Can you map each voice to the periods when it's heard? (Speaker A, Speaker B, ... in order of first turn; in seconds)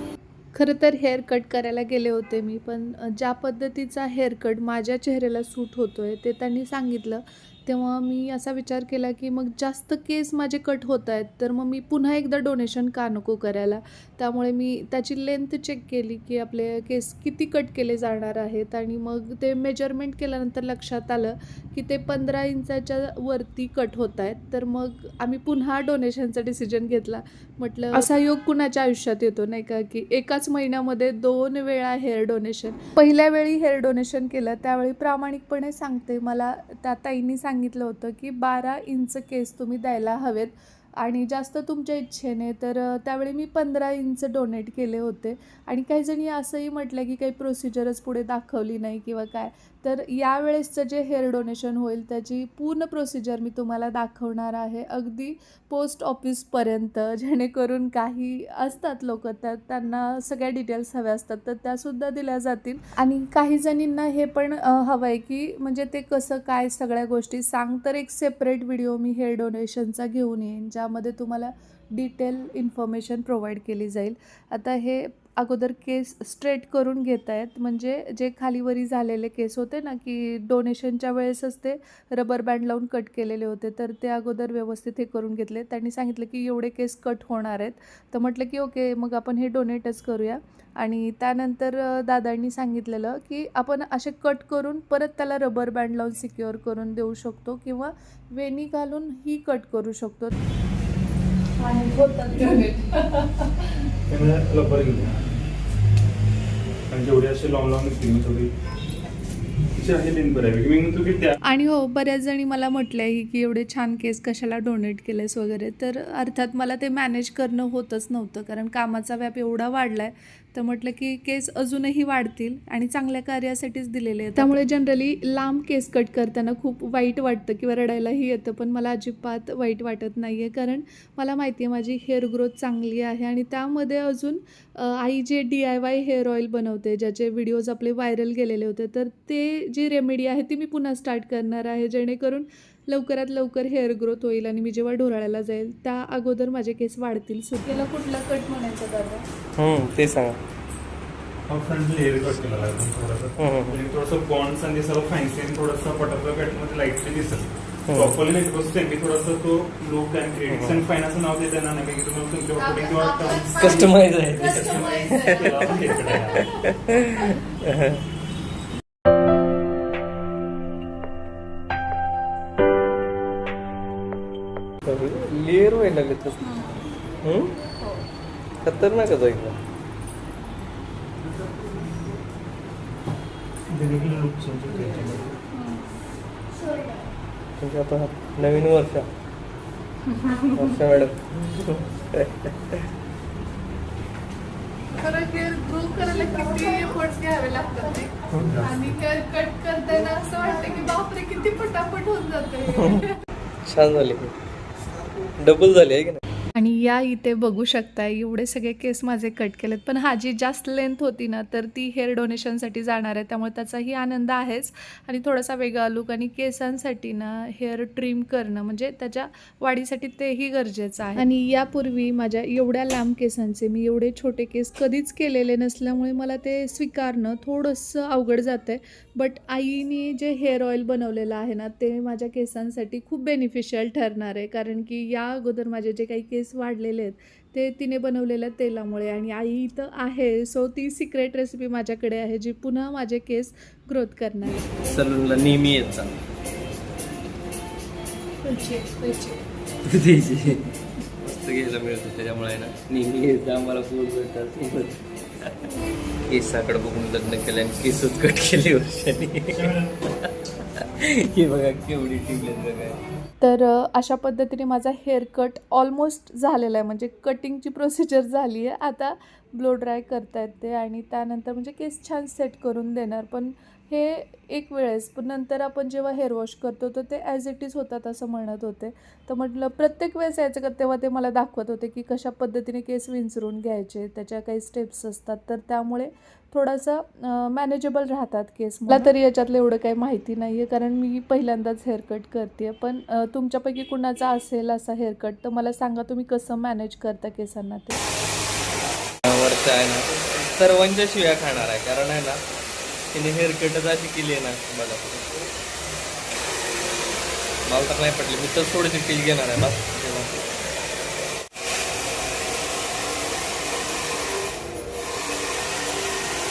Speaker A: 0.5-100.3, 101.6-103.8, 111.4-149.2, 162.6-167.4, 176.5-176.8, 185.5-186.0, 186.6-187.1, 190.1-190.7, 195.0-203.2, 206.6-244.6, 248.4-249.4, 263.4-298.0
Speaker B: 104.1-105.3, 106.9-108.5, 109.7-111.3, 151.5-166.5, 183.7-185.4, 198.3-198.9, 259.5-260.0
Speaker C: 149.6-150.4, 153.4-153.8, 157.9-158.2, 160.5-160.8, 163.6-168.1, 174.8-176.4, 177.2-177.5, 178.6-179.6, 187.6-189.1, 190.5-192.9, 202.7-203.1, 203.7-204.3, 205.4-206.2, 244.8-246.1, 249.9-250.7, 251.2-255.5, 256.3-263.0, 299.3-302.4, 303.1-305.5, 307.7-310.5